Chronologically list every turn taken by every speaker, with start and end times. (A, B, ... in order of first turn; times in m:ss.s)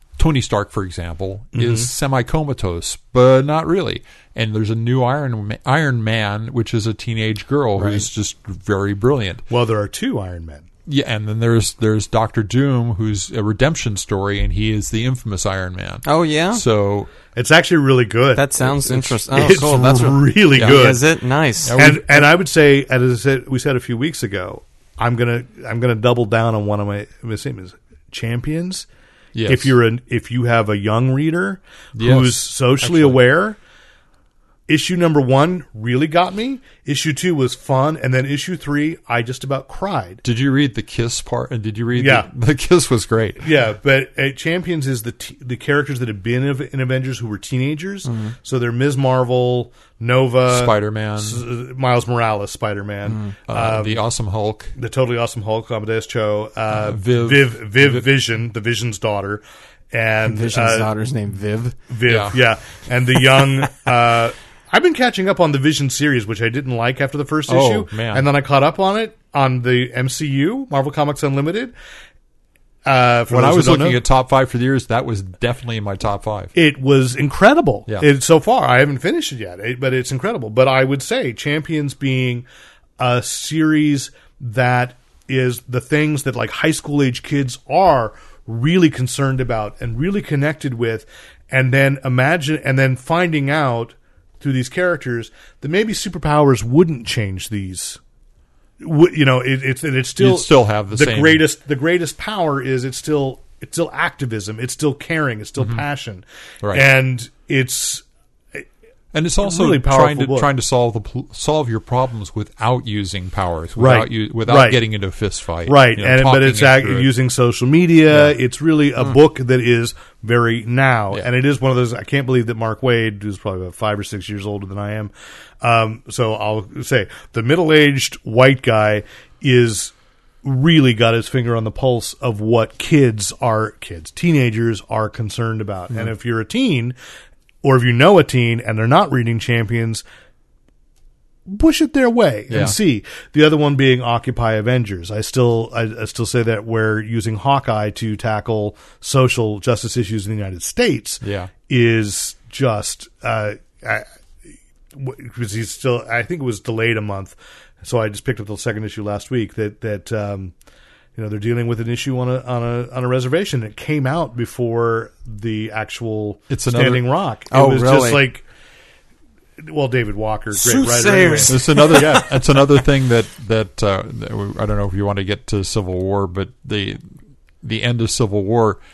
0:00.2-0:09.4 A
0:01.6-0:01.9 B
0:07.8-0:08.1 B
0:09.5-0:10.7 B
0:10.9-0:17.1 A
0:16.0-0:16.6 C
0:17.3-0:21.0 B
0:18.4-0:21.8 C
0:18.9-0:20.9 A
0:21.7-0:22.0 A
0:21.8-0:28.9 B
0:29.4-0:29.7 A
0:29.5-0:33.6 B
0:32.0-0:33.2 A
0:34.7-0:40.2 B
0:40.2-0:43.4 A
0:41.9-0:42.3 B
0:43.4-0:54.0 B
0:48.1-0:48.3 C
0:50.5-0:51.4 A
0:53.1-0:53.3 C
0:53.5-0:54.7 A
0:54.8-1:00.9 B
0:56.7-0:58.0 A
1:00.2-1:01.8 C
1:01.9-1:11.7 B
1:02.1-1:02.4 A
1:07.5-1:08.3 A
1:12.8-1:14.0 B
1:13.3-1:16.5 A
1:16.6-1:22.5 B
1:23.0-1:38.0 B
1:38.8-1:48.0 B
1:40.2-1:41.4 A
1:49.1-1:57.1 A
1:49.4-1:50.5 B
1:53.8-1:54.8 B
1:55.7-2:17.0 B
2:17.6-2:20.0 B
2:21.5-2:34.1 B
2:22.5-2:22.8 A
2:31.2-2:31.5 A
2:34.9-2:40.5 B
2:41.2-2:48.4 B
2:46.5-2:47.0 A
2:47.5-2:48.2 C
2:49.6-2:52.1 B
2:50.6-2:52.2 C
2:51.5-2:57.0 A
2:57.6-2:58.8 A